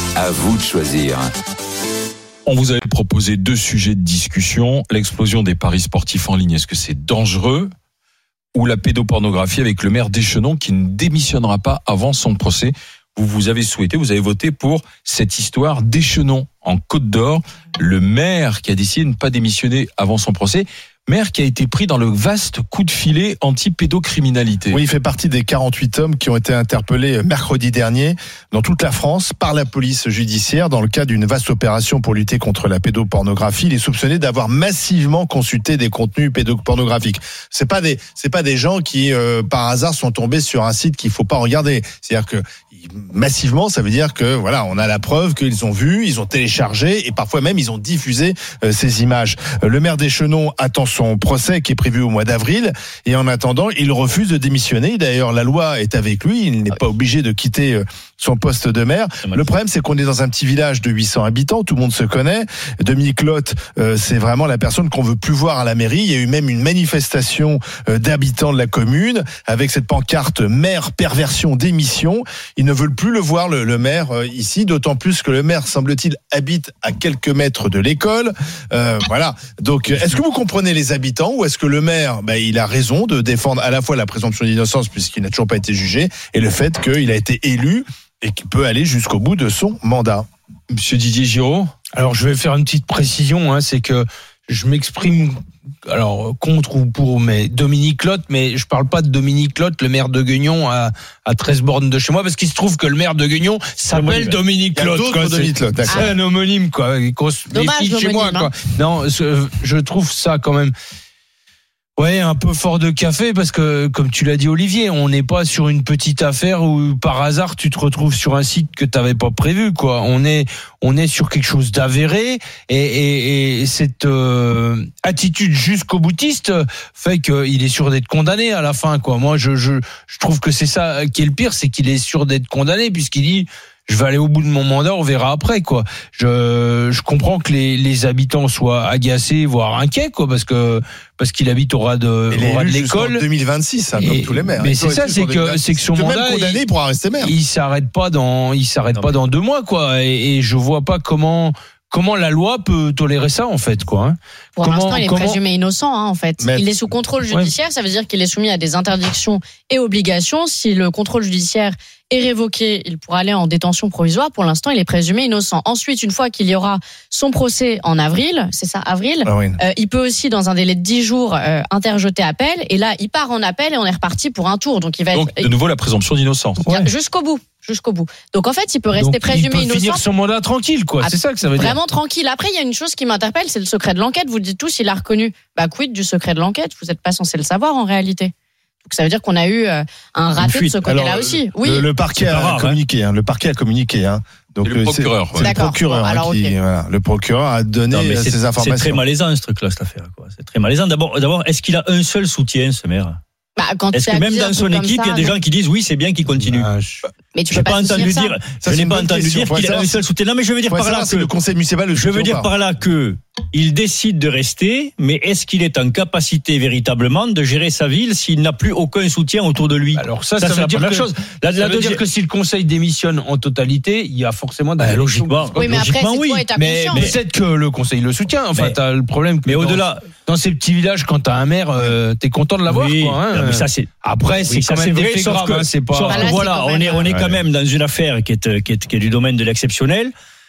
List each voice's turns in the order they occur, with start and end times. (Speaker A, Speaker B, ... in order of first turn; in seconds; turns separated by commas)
Speaker A: 2.5-7.7, Speaker A: 8.5-24.8, Speaker B: 24.7-90.2, Speaker A: 90.7-91.7, Speaker C: 91.9-95.3, Speaker C: 95.8-110.7, Speaker D: 103.9-104.4, Speaker B: 104.8-106.1, Speaker E: 105.9-106.1, Speaker E: 107.5-108.5, Speaker C: 112.0-143.2, Speaker B: 142.3-147.3, Speaker C: 144.0-146.6, Speaker C: 147.2-155.4, Speaker E: 154.6-175.4, Speaker B: 156.4-156.7, Speaker B: 169.2-169.6, Speaker A: 175.1-176.7, Speaker E: 176.7-180.0, Speaker C: 179.0-181.7, Speaker E: 181.0-188.3, Speaker E: 188.8-191.9, Speaker D: 190.4-190.8, Speaker B: 190.8-199.0, Speaker D: 192.2-192.8, Speaker A: 194.6-195.5, Speaker E: 195.3-196.5, Speaker D: 197.9-203.2, Speaker E: 203.6-205.4, Speaker D: 203.9-206.7, Speaker C: 206.5-207.0, Speaker E: 207.3-208.4, Speaker D: 207.5-211.3, Speaker B: 208.6-210.0, Speaker B: 210.7-212.5, Speaker D: 211.9-222.0, Speaker C: 219.9-221.1, Speaker C: 221.6-225.7, Speaker D: 224.8-227.2, Speaker E: 225.5-227.1, Speaker C: 226.6-236.2, Speaker D: 229.4-230.1, Speaker D: 232.7-233.9, Speaker D: 234.4-240.1, Speaker E: 236.1-237.1